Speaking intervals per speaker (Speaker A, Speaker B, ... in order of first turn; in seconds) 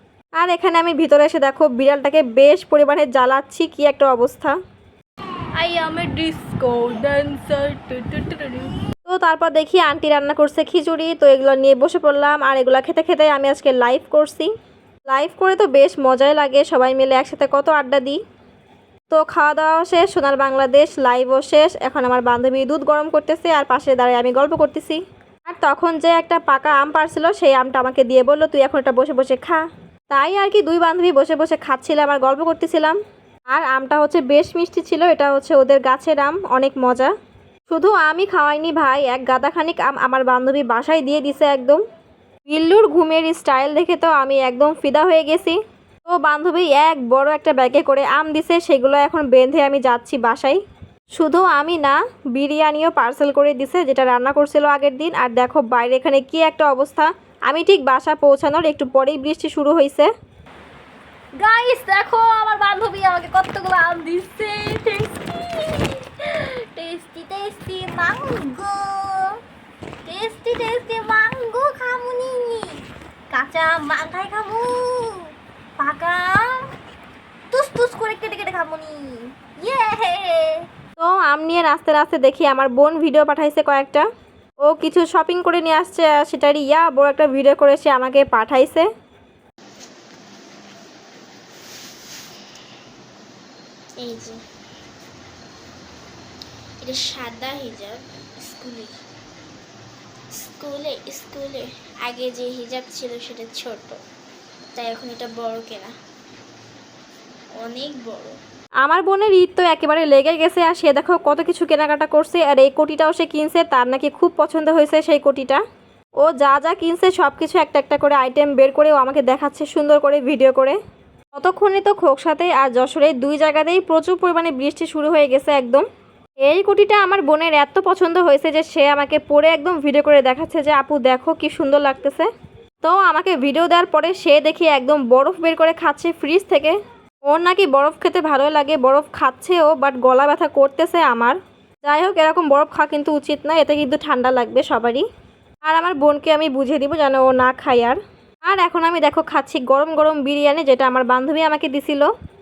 Speaker A: 0.4-4.5, 9.1-14.5, 15.1-18.2, 19.1-33.0, 33.5-37.1, 37.7-41.8, 42.5-45.6, 46.1-50.6, 51.2-60.1, 81.0-84.1, 84.7-88.9, 108.8-115.6, 116.2-120.8, 121.4-125.8, 126.4-132.3, 132.8-136.8, 137.3-145.0, 145.7-152.1
Speaker B: 5.6-8.7, 61.4-69.2, 70.1-72.6, 73.4-74.6, 75.8-76.3, 77.8-78.9, 79.7-79.9
Speaker C: 66.9-69.3, 70.1-72.8, 73.3-75.3, 75.8-76.7, 77.5-80.7, 94.0-94.4, 96.8-99.0, 100.4-104.0, 104.7-105.9, 107.6-108.4